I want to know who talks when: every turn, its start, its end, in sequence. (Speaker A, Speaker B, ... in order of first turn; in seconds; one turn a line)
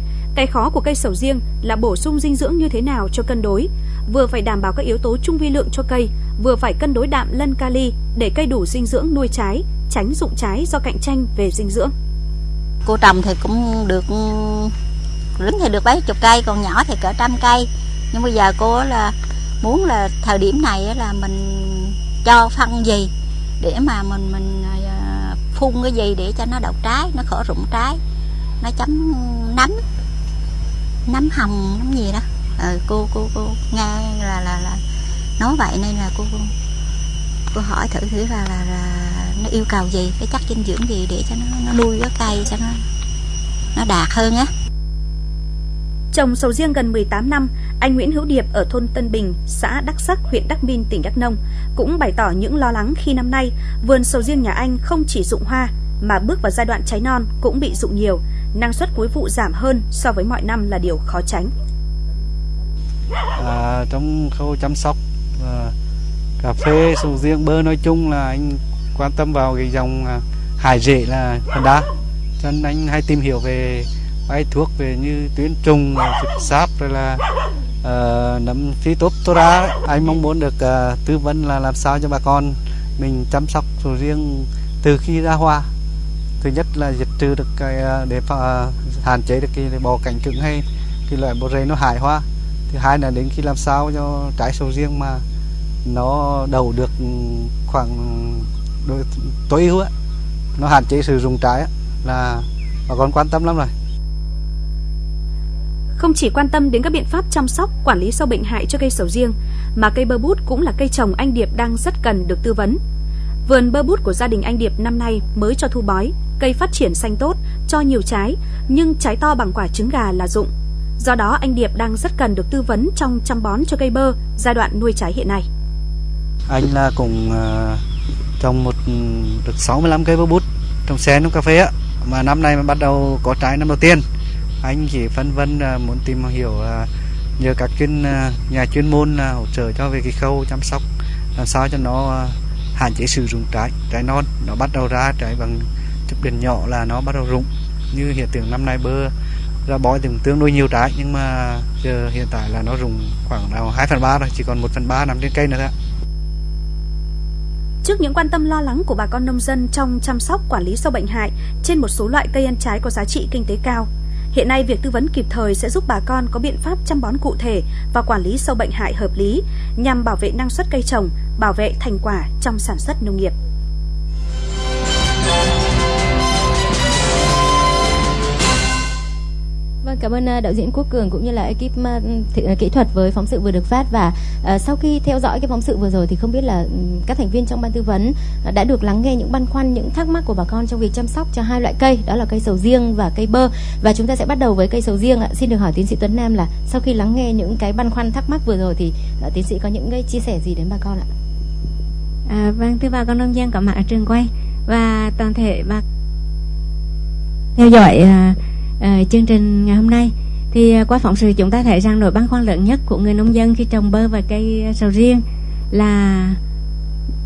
Speaker A: 0.3-11.9
Speaker B: 12.8-14.7
Speaker B: 15.4-28.0
Speaker B: 28.6-29.8
Speaker B: 31.1-34.8
Speaker B: 35.4-36.5
Speaker B: 37.5-42.8
Speaker B: 43.7-44.5
Speaker A: 46.1-61.5
Speaker C: 63.4-65.7
Speaker C: 66.4-71.8
Speaker C: 72.4-77.2
Speaker C: 77.8-85.7
Speaker C: 86.4-95.2
Speaker C: 95.8-99.9
Speaker C: 100.6-103.7
Speaker A: 106.0-112.8
Speaker A: 113.5-125.5
Speaker C: 126.5-127.8
Speaker C: 128.4-134.0
Speaker C: 134.6-140.8
Speaker C: 141.3-149.1
Speaker C: 149.7-155.7
Speaker A: 157.8-173.3
Speaker D: 179.8-201.1
Speaker E: 202.3-205.8
Speaker E: 207.6-216.4